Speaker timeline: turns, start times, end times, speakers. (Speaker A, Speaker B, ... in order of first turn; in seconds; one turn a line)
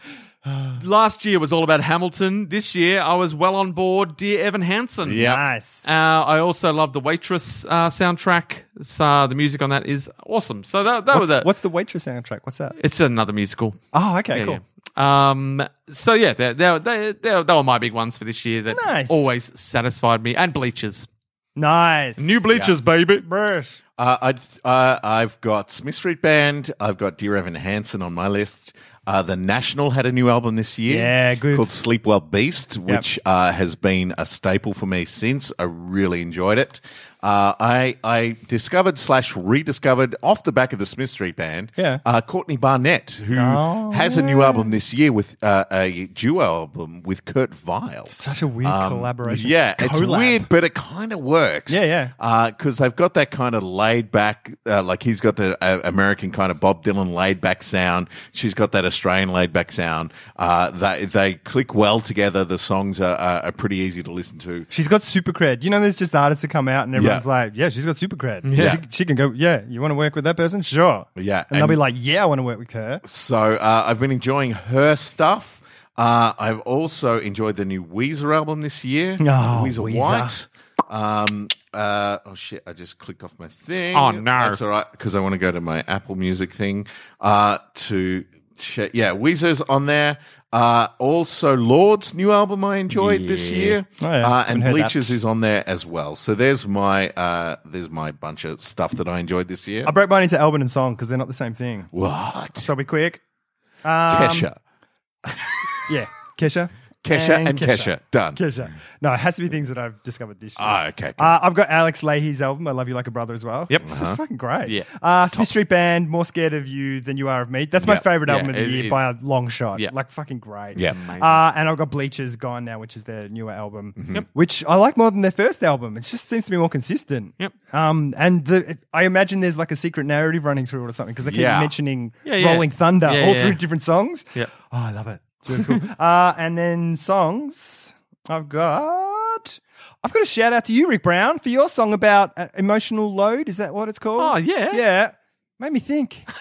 Speaker A: 0.5-0.8
Speaker B: 0.7-11.5
Speaker C: 5.0-5.4
Speaker A: 5.2-5.9
Speaker A: 11.1-12.8
Speaker B: 12.8-13.8
Speaker A: 13.9-14.6
Speaker B: 14.3-21.1
Speaker A: 18.7-19.3
Speaker A: 21.6-22.5
Speaker B: 22.2-23.2
Speaker A: 23.2-23.8
Speaker C: 24.0-48.1
Speaker A: 30.9-31.7
Speaker A: 41.8-42.0
Speaker A: 43.3-44.7
Speaker A: 48.1-50.5
Speaker C: 48.6-64.7
Speaker A: 51.7-52.1
Speaker A: 64.7-73.0
Speaker C: 67.0-67.2
Speaker B: 68.4-68.8
Speaker C: 71.2-71.8
Speaker C: 73.0-99.9
Speaker A: 79.2-80.3
Speaker B: 83.9-84.6
Speaker B: 92.9-93.8
Speaker A: 94.0-95.1
Speaker A: 99.8-101.9
Speaker C: 101.9-102.7
Speaker A: 102.5-103.2
Speaker A: 103.8-104.5
Speaker C: 104.1-104.6
Speaker C: 105.3-105.5
Speaker A: 105.8-146.3
Speaker C: 107.0-108.4
Speaker C: 110.6-111.3
Speaker C: 113.8-114.2
Speaker B: 114.6-115.4
Speaker B: 118.2-119.0
Speaker B: 120.8-121.4
Speaker C: 124.0-124.2
Speaker C: 131.2-131.7
Speaker B: 132.2-133.6
Speaker B: 135.5-135.8
Speaker B: 144.2-144.8